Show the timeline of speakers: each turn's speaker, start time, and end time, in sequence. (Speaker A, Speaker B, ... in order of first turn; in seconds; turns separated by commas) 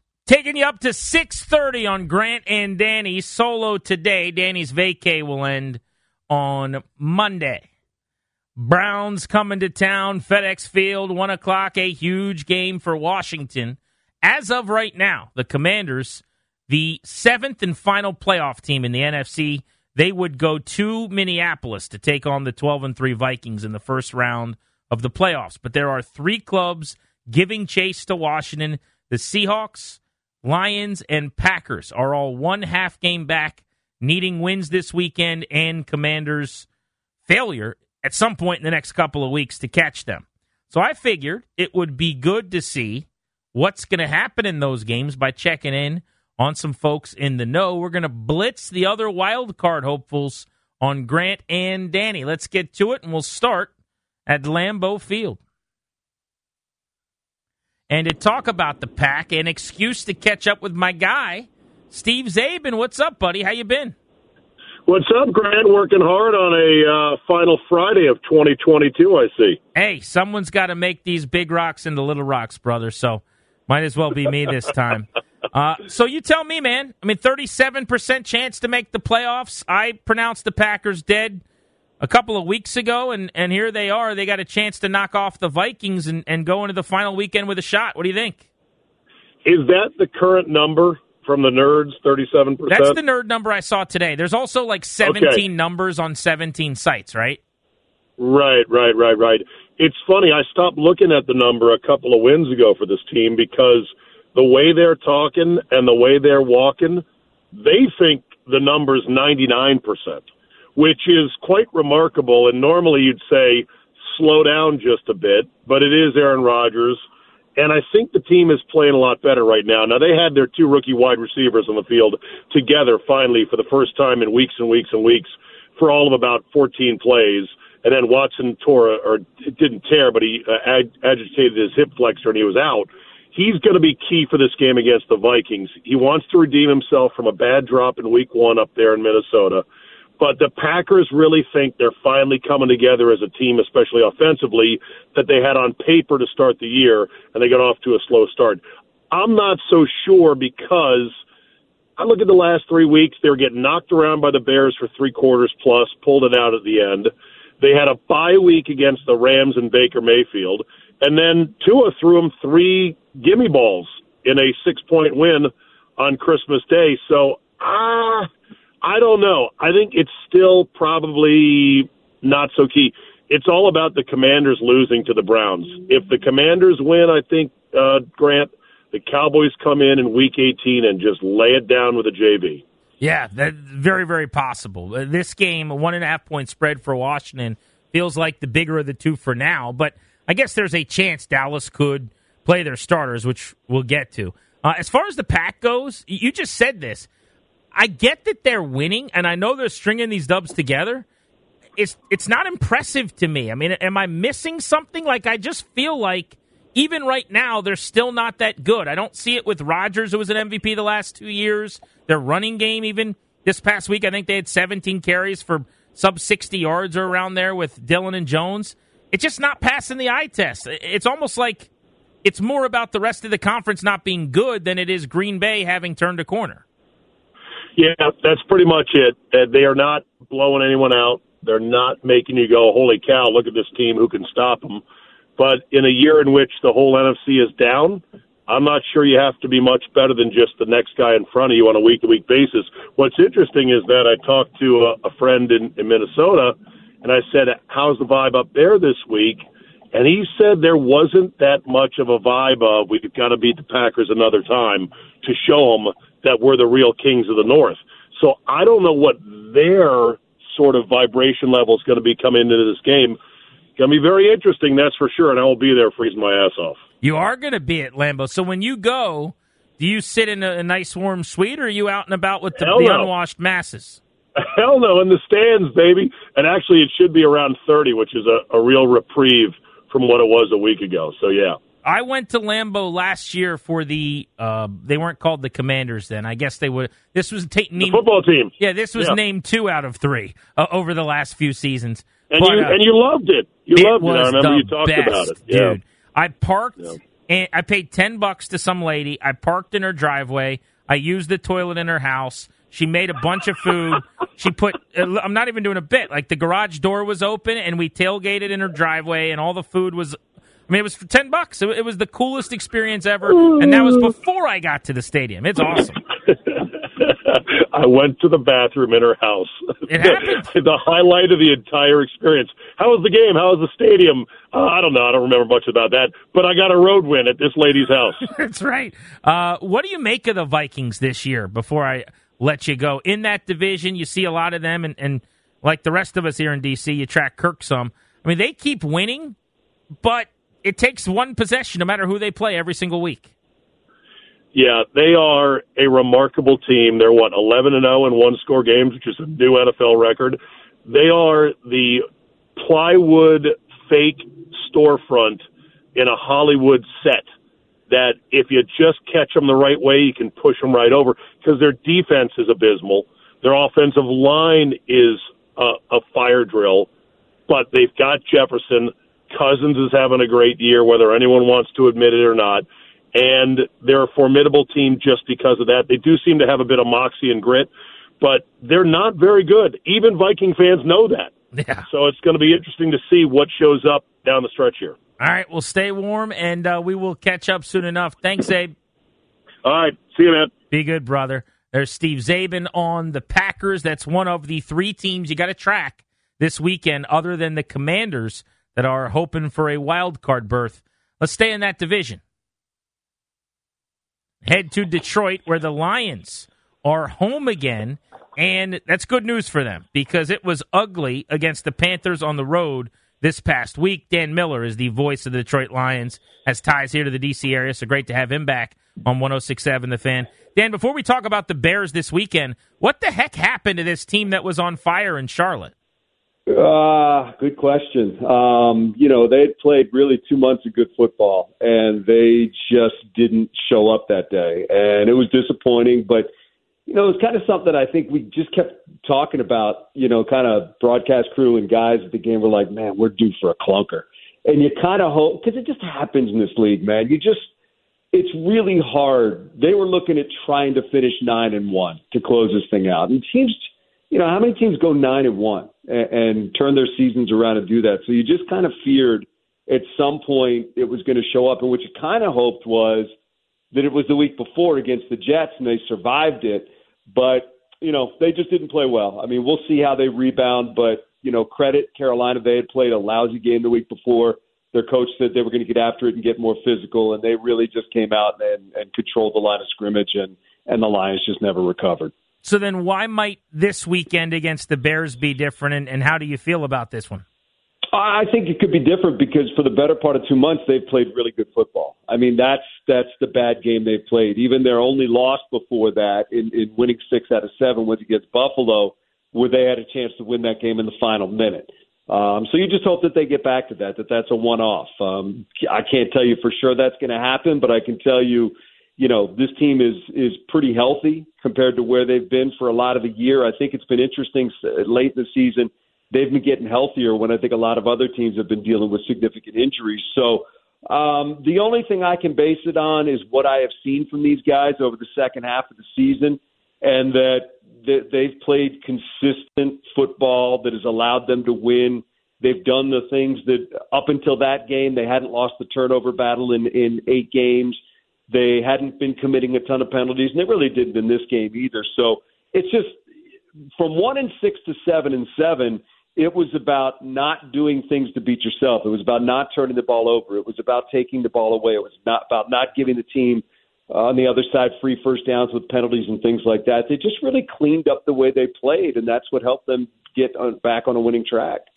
Speaker A: 0.3-7.6, Speaker A: 8.6-36.7, Speaker A: 37.3-53.7, Speaker A: 54.3-55.4, Speaker A: 57.9-63.9, Speaker B: 64.9-69.6, Speaker A: 69.7-81.4, Speaker A: 82.0-88.4, Speaker B: 89.4-93.0, Speaker A: 92.7-97.4, Speaker B: 95.0-95.4, Speaker B: 98.2-110.2, Speaker B: 110.8-117.0, Speaker B: 117.6-139.6, Speaker B: 140.2-151.1, Speaker B: 152.0-168.3, Speaker B: 168.8-182.6, Speaker A: 183.0-197.1, Speaker A: 197.7-201.1, Speaker A: 201.8-221.7, Speaker A: 222.2-226.6, Speaker B: 227.8-234.8, Speaker B: 235.4-249.4, Speaker B: 249.9-263.2, Speaker B: 263.8-266.8, Speaker A: 267.0-274.0, Speaker B: 272.6-273.1, Speaker B: 274.4-281.6, Speaker A: 281.8-288.0, Speaker B: 287.8-289.2, Speaker A: 288.6-292.8, Speaker B: 292.3-295.8, Speaker A: 293.7-316.0, Speaker B: 317.0-328.2, Speaker A: 319.9-320.5, Speaker A: 328.2-339.4, Speaker A: 340.0-343.3, Speaker B: 344.5-352.0, Speaker B: 352.6-355.4, Speaker B: 355.9-357.2, Speaker B: 357.9-366.9, Speaker B: 367.5-377.7, Speaker B: 378.2-381.3, Speaker A: 381.5-381.8, Speaker B: 381.9-385.0, Speaker A: 385.2-388.7, Speaker B: 389.6-390.5, Speaker A: 390.7-402.2, Speaker A: 404.4-425.7, Speaker C: 426.5-436.3, Speaker C: 436.9-447.5, Speaker C: 448.1-463.1, Speaker C: 463.7-482.1, Speaker A: 482.4-487.2, Speaker C: 487.9-537.8, Speaker C: 538.3-543.0, Speaker C: 543.8-561.6